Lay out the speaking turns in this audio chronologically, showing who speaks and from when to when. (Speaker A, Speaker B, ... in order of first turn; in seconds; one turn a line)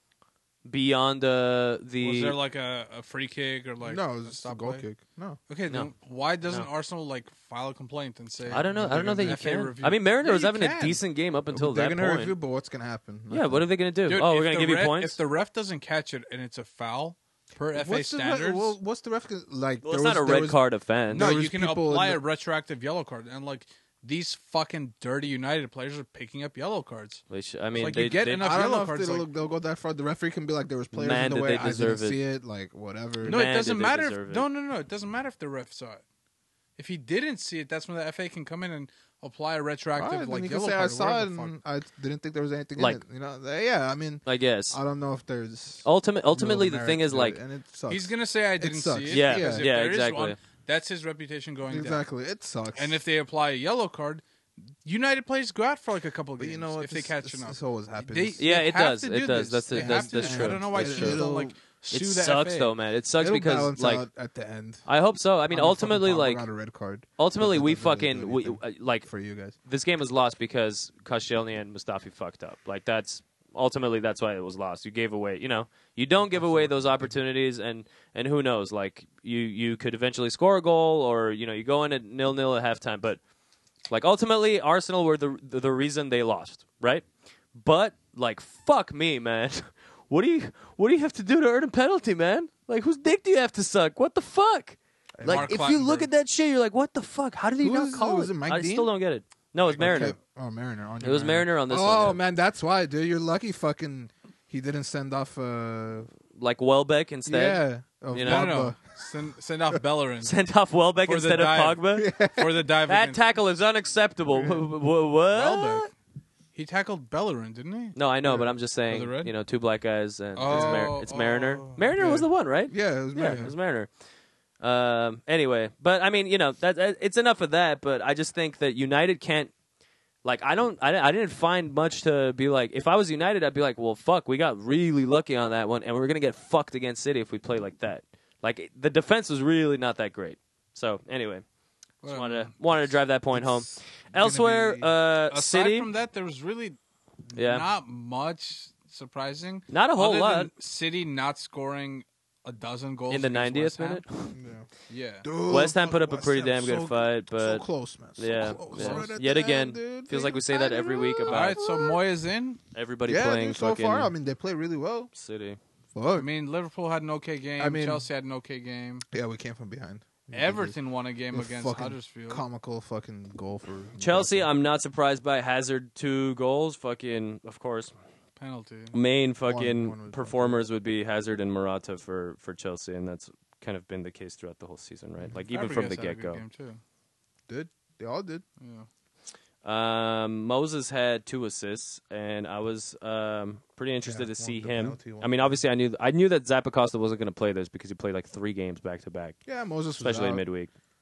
Speaker A: 0.6-2.4
Speaker B: 2.0-4.8
Speaker C: 3.8-5.4
Speaker B: 5.5-10.8
Speaker A: 8.5-12.3
Speaker C: 11.5-13.7
Speaker A: 13.3-15.2
Speaker B: 14.1-18.8
Speaker C: 17.7-22.2
Speaker A: 19.8-21.3
Speaker B: 21.1-27.2
Speaker A: 27.3-28.5
Speaker B: 27.8-29.3
Speaker C: 28.4-33.4
Speaker A: 30.9-32.2
Speaker A: 33.2-34.5
Speaker B: 33.2-36.0
Speaker B: 36.8-41.5
Speaker C: 40.0-49.7
Speaker A: 42.8-43.0
Speaker A: 44.2-44.8
Speaker A: 45.8-47.4
Speaker B: 47.9-52.0
Speaker A: 49.1-50.4
Speaker C: 51.7-53.0
Speaker B: 52.7-54.2
Speaker B: 54.8-62.7
Speaker C: 56.4-58.4
Speaker A: 58.4-61.2
Speaker C: 59.7-61.5
Speaker A: 61.9-64.0
Speaker C: 63.2-64.8
Speaker A: 64.8-66.4
Speaker C: 65.5-69.5
Speaker A: 67.2-69.1
Speaker A: 69.6-83.2
Speaker C: 76.2-77.2
Speaker A: 83.9-100.2
Speaker C: 95.2-95.6
Speaker B: 95.2-96.1
Speaker C: 97.6-98.9
Speaker C: 99.6-106.1
Speaker A: 101.0-102.2
Speaker A: 106.3-108.6
Speaker C: 107.3-108.8
Speaker B: 108.2-110.3
Speaker A: 110.2-112.1
Speaker B: 111.0-113.2
Speaker C: 112.0-112.6
Speaker A: 112.9-115.9
Speaker B: 115.3-115.9
Speaker B: 116.5-119.3
Speaker A: 117.9-123.9
Speaker B: 120.3-122.2
Speaker C: 120.5-120.9
Speaker C: 122.0-123.5
Speaker B: 123.2-123.5
Speaker A: 124.6-129.5
Speaker A: 130.2-141.4
Speaker B: 142.0-142.8
Speaker A: 142.1-145.9
Speaker C: 143.3-144.9
Speaker B: 145.3-146.8
Speaker B: 147.3-154.0
Speaker A: 147.3-147.7
Speaker A: 149.7-150.5
Speaker A: 153.1-154.3
Speaker C: 154.3-154.7
Speaker B: 154.9-155.3
Speaker C: 155.2-162.0
Speaker A: 155.4-157.6
Speaker A: 158.2-161.6
Speaker B: 158.7-159.1
Speaker B: 161.3-162.6
Speaker A: 162.7-164.1
Speaker C: 163.1-165.1
Speaker A: 165.1-165.6
Speaker C: 165.9-166.3
Speaker B: 166.2-169.1
Speaker C: 167.6-168.1
Speaker C: 169.1-170.8
Speaker B: 170.3-172.4
Speaker C: 171.3-174.5
Speaker A: 174.0-177.9
Speaker B: 178.4-178.9
Speaker A: 178.9-186.4
Speaker C: 179.4-180.6
Speaker B: 185.5-186.8
Speaker C: 187.5-188.4
Speaker B: 188.6-188.9
Speaker A: 189.6-199.4
Speaker C: 194.0-195.6
Speaker C: 199.4-200.4
Speaker A: 200.0-200.7